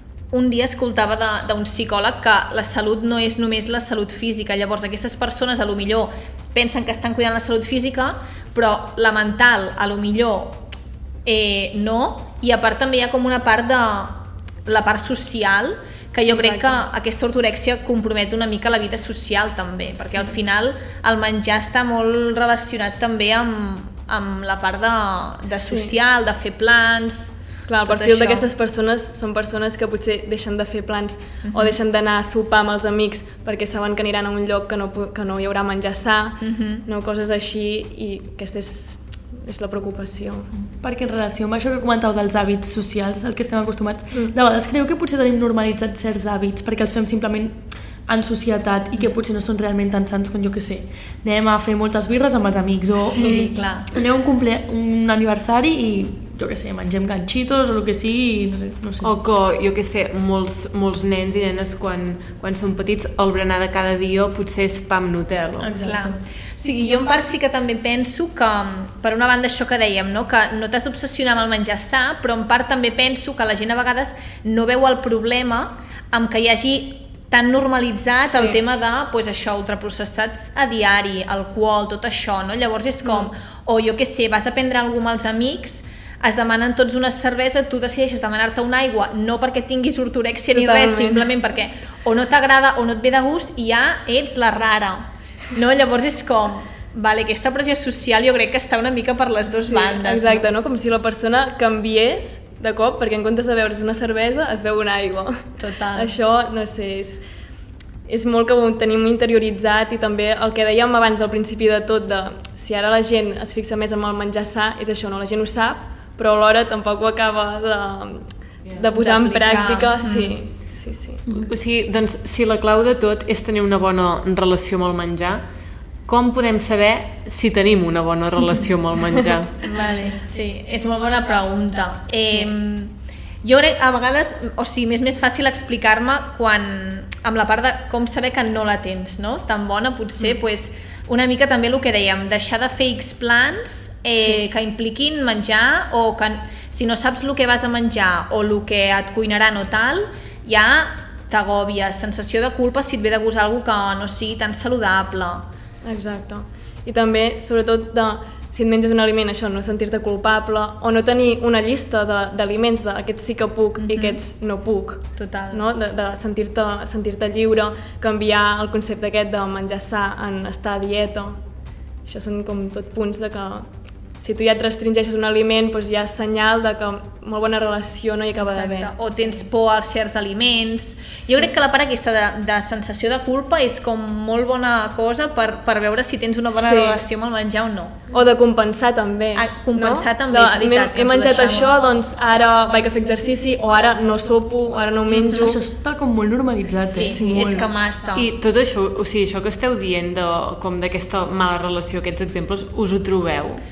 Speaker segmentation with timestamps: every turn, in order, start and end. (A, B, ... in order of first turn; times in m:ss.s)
0:00.3-0:10.6 A
0:11.2-0:28.4 A
0:16.3-0:16.8 B
0:20.0-0:20.4 B
0:25.5-0:25.9 B
0:27.7-0:40.5 B
0:31.4-0:31.8 A
0:36.4-0:36.8 A
0:40.5-0:59.2 C
0:53.1-0:53.9 A
0:53.1-0:53.4 B
0:59.0-1:05.7 D
1:05.6-1:06.2 C
1:05.8-1:40.5 A
1:18.2-1:18.6 B
1:23.0-1:23.3 B
1:30.5-1:31.3 B
1:39.6-1:47.2 B
1:45.6-1:46.1 A
1:48.1-2:01.2 B
1:59.0-2:00.3 A
2:01.2-2:01.5 C
2:01.4-2:05.4 D
2:06.1-2:09.6 D
2:09.6-2:35.5 A
2:09.8-2:10.1 B
2:24.1-2:24.4 B
2:35.8-2:51.4 B
2:43.8-2:44.2 A
2:45.2-2:45.6 A
2:52.1-2:53.7 B
2:54.2-2:58.9 B
2:58.4-3:08.1 A
3:06.5-3:07.0 B
3:08.1-3:15.6 B
3:09.3-3:11.7 A
3:15.1-3:17.7 C
3:16.9-3:18.3 A
3:17.0-3:17.7 B
3:18.1-3:23.6 D